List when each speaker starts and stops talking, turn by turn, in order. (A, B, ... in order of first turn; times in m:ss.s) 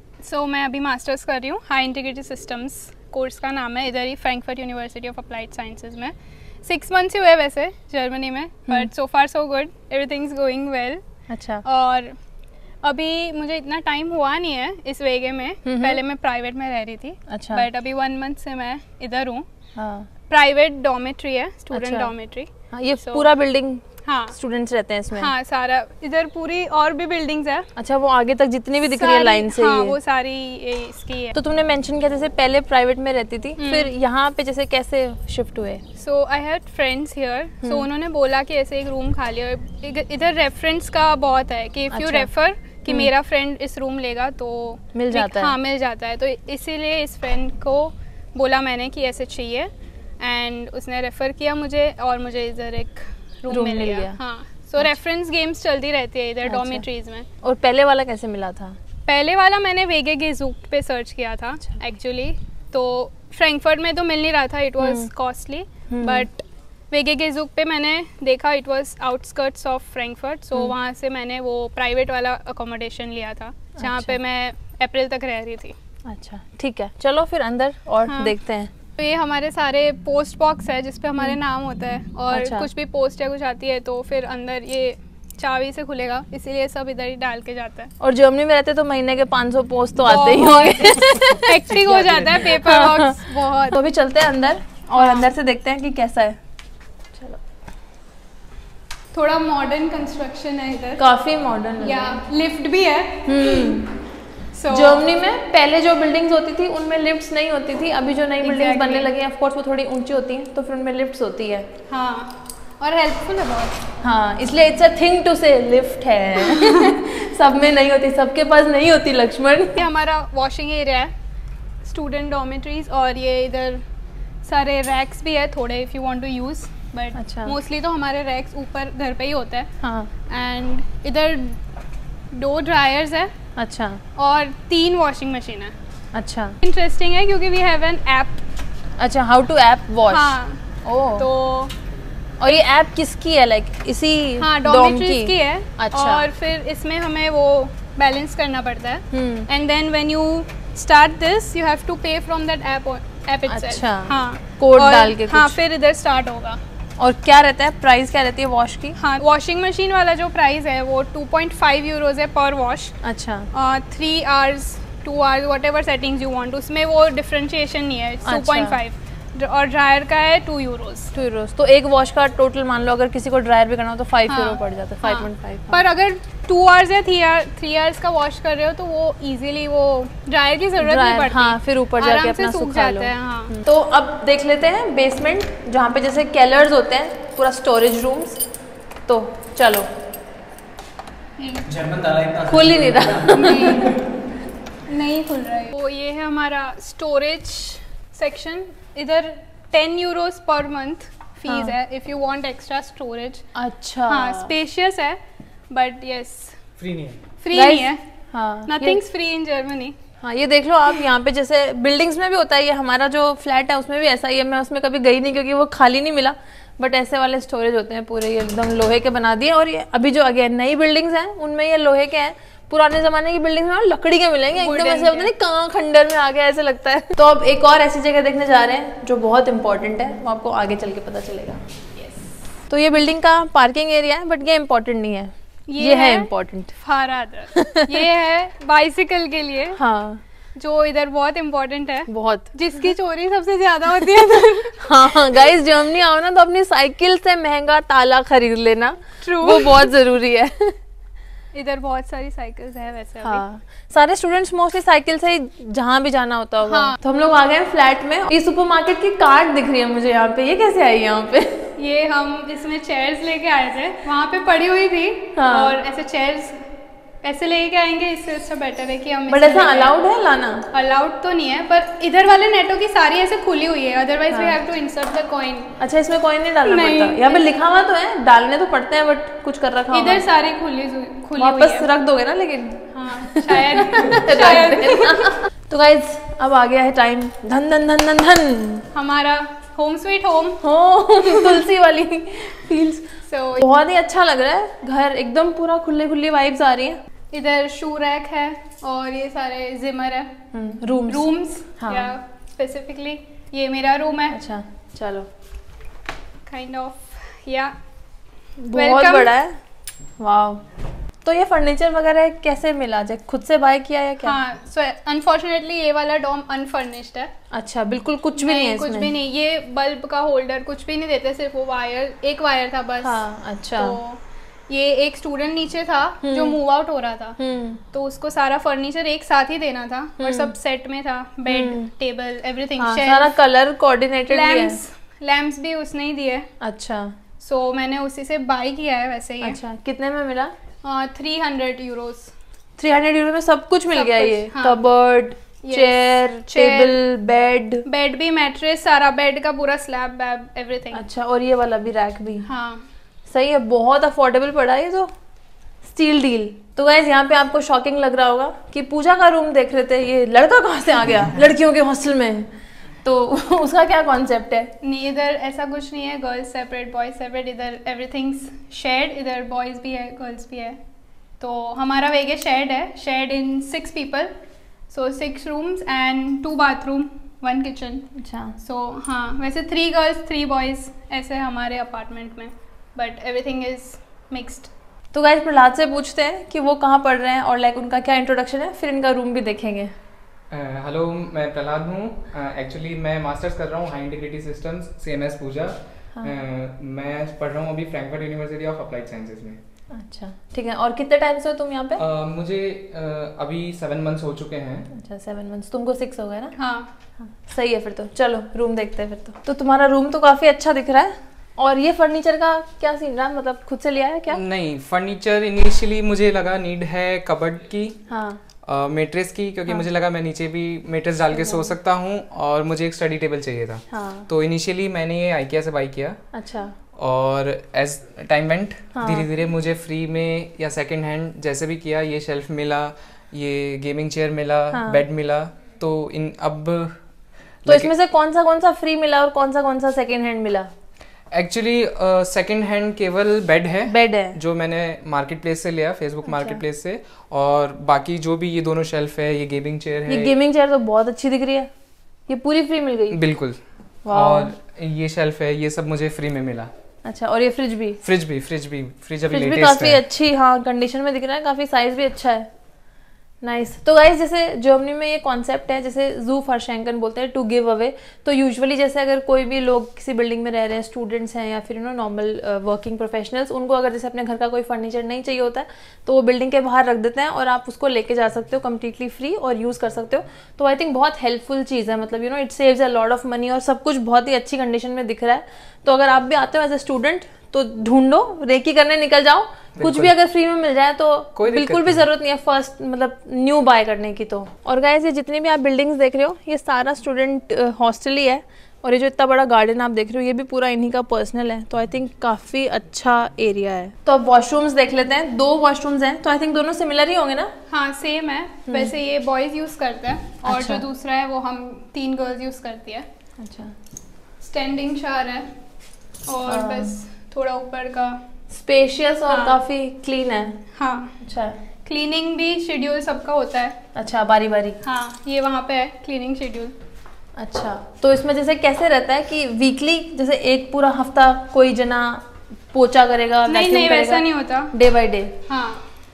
0:00.2-0:11.0 A
0:11.3-0:11.6 B
0:11.6-0:12.2 A
0:12.8-0:19.4 A
0:15.6-0:16.0 B
0:17.3-0:17.6 B
0:19.8-0:20.1 B
0:20.3-0:23.3 A
0:21.7-0:22.1 B
0:22.7-0:25.3 B
0:24.0-0:24.4 A
0:25.1-0:27.7 A
0:27.8-0:30.0 B
0:28.8-0:31.4 A
0:31.3-0:35.8 B
0:33.6-0:33.9 A
0:36.0-0:57.3 A
0:41.9-0:42.3 B
0:44.9-0:45.5 B
0:53.5-0:54.2 B
0:56.4-0:56.8 B
0:57.4-0:58.8 B
0:59.0-1:15.7 A
1:04.8-1:05.1 B
1:05.9-1:06.2 B
1:13.8-1:14.2 B
1:16.0-1:18.7 B
1:18.0-1:18.4 A
1:19.0-1:27.9 A
1:22.3-1:22.7 B
1:28.0-1:33.2 B
1:30.0-1:33.8 A
1:33.7-1:36.4 B
1:35.0-1:35.3 A
1:39.1-1:41.0 A
1:41.0-1:42.2 B
1:41.8-1:43.8 A
1:43.2-1:44.0 B
1:44.5-1:45.0 A
1:44.7-1:51.7 B
1:48.4-1:49.1 A
1:51.9-1:53.8 A
1:54.0-1:59.8 B
1:56.4-1:56.9 A
1:59.8-2:01.1 A
2:01.8-2:03.8 A
2:04.4-2:09.7 A
2:07.1-2:07.5 B
2:09.8-2:10.1 B
2:10.3-2:11.6 A
2:12.3-2:13.3 A
2:13.6-2:14.0 B
2:14.2-2:15.7 A
2:16.1-2:16.5 B
2:16.6-2:18.4 A
2:19.0-2:21.2 B
2:20.1-2:20.6 A
2:21.1-2:21.7 A
2:22.4-2:26.3 B
2:24.4-2:36.6 A
2:29.1-2:29.5 B
2:33.5-2:35.6 B
2:37.0-2:39.0 B
2:39.0-2:43.0 A
2:43.0-2:43.5 B
2:43.5-2:51.1 A
2:48.2-2:48.8 B
2:51.1-2:55.8 B
2:54.3-3:03.5 A
3:00.8-3:08.4 B
3:09.0-3:09.9 B
3:11.4-3:11.8 A
3:12.4-3:14.0 B
3:13.3-3:14.0 A
3:14.9-3:23.5 A
3:21.5-3:21.7 B
3:23.6-3:24.5 B
3:24.1-3:25.2 A
3:25.7-3:26.6 A
3:27.4-3:28.0 A
3:27.5-3:29.0 B
3:28.6-3:30.0 A
3:30.2-3:51.6 B
3:44.5-3:45.3 A
3:52.0-3:52.3 A
3:52.7-3:56.7 B
3:55.7-3:59.8 A
3:57.6-3:57.9 B
3:59.8-4:00.2 B
4:00.6-4:05.4 A
4:02.1-4:02.5 B
4:04.8-4:10.8 B
4:09.2-4:09.9 A
4:11.5-4:13.4 A
4:13.2-4:21.6 B
4:16.6-4:17.0 A
4:21.8-4:26.6 A
4:25.3-4:25.7 B
4:27.2-4:29.9 A
4:29.3-4:30.6 B
4:30.7-4:35.8 A
4:34.3-4:34.6 B
4:35.8-4:40.2 B
4:36.6-4:37.5 A
4:39.9-4:41.9 A
4:41.4-4:48.8 B
4:42.9-4:45.3 A
4:48.9-4:50.6 A
4:50.6-4:57.0 B
4:51.2-4:51.6 A
4:53.2-4:53.6 A
4:57.3-5:00.3 A
5:00.5-5:02.1 B
5:01.1-5:04.4 A
5:04.3-5:05.3 B
5:06.4-5:07.8 A
5:08.6-5:09.6 B
5:08.7-5:09.3 A
5:10.2-5:10.6 B
5:11.2-5:14.4 B
5:14.2-5:17.3 A
5:17.5-5:19.1 B
5:18.4-5:23.2 A
5:23.0-5:24.0 B
5:23.7-5:27.4 A
5:26.2-5:26.6 B
5:27.4-5:27.8 B
5:27.9-5:33.3 A
5:30.2-5:30.5 B
5:31.5-5:31.9 B
5:32.8-5:34.8 B
5:34.3-5:36.5 A
5:36.6-5:37.1 B
5:37.4-5:39.6 A
5:39.4-5:40.5 B
5:40.8-5:42.3 A
5:42.8-5:47.8 B
5:43.9-5:44.8 A
5:45.6-5:47.0 A
5:47.8-5:51.0 A
5:50.9-5:52.4 B
5:52.4-5:52.8 A
5:53.3-5:55.1 B
5:55.8-6:02.5 B
6:03.0-6:04.7 B
6:04.8-6:10.8 A
6:11.4-6:14.3 A
6:14.9-6:24.7 A
6:18.2-6:18.6 B
6:25.1-6:29.9 B
6:30.5-6:39.6 C
6:39.9-6:42.0 B
6:42.0-6:44.9 C
6:44.9-6:46.6 B
6:46.6-6:46.9 A
6:47.2-6:54.4 B
6:54.3-6:58.0 C
6:58.1-6:58.4 B
6:58.6-7:06.2 C
7:01.3-7:01.7 B
7:03.9-7:04.3 B
7:06.3-7:06.7 B
7:06.9-7:17.0 C
7:08.9-7:09.3 B
7:14.7-7:15.0 B
7:17.6-7:17.9 C
7:17.6-7:20.7 B
7:21.3-7:30.3 C
7:23.9-7:24.4 B
7:26.3-7:26.6 B
7:30.1-7:31.7 B
7:32.3-7:33.2 B
7:33.1-7:36.7 C
7:34.0-7:34.5 B
7:37.0-7:38.0 B
7:38.0-7:40.0 C
7:39.3-7:42.5 B
7:43.4-8:27.5 B
8:09.8-8:10.1 C
8:11.3-8:12.0 C
8:27.7-8:33.0 A
8:30.4-8:30.8 B
8:33.4-8:33.7 B
8:34.4-8:35.5 A
8:36.3-8:38.2 A
8:36.5-8:36.9 B
8:38.5-8:40.6 B
8:39.3-8:39.6 A
8:40.8-8:41.2 A
8:41.2-8:41.6 B
8:41.8-8:43.8 A
8:43.9-8:44.8 B
8:44.8-8:46.7 A
8:47.4-8:55.3 B
8:53.5-8:54.7 A
8:55.5-8:55.8 A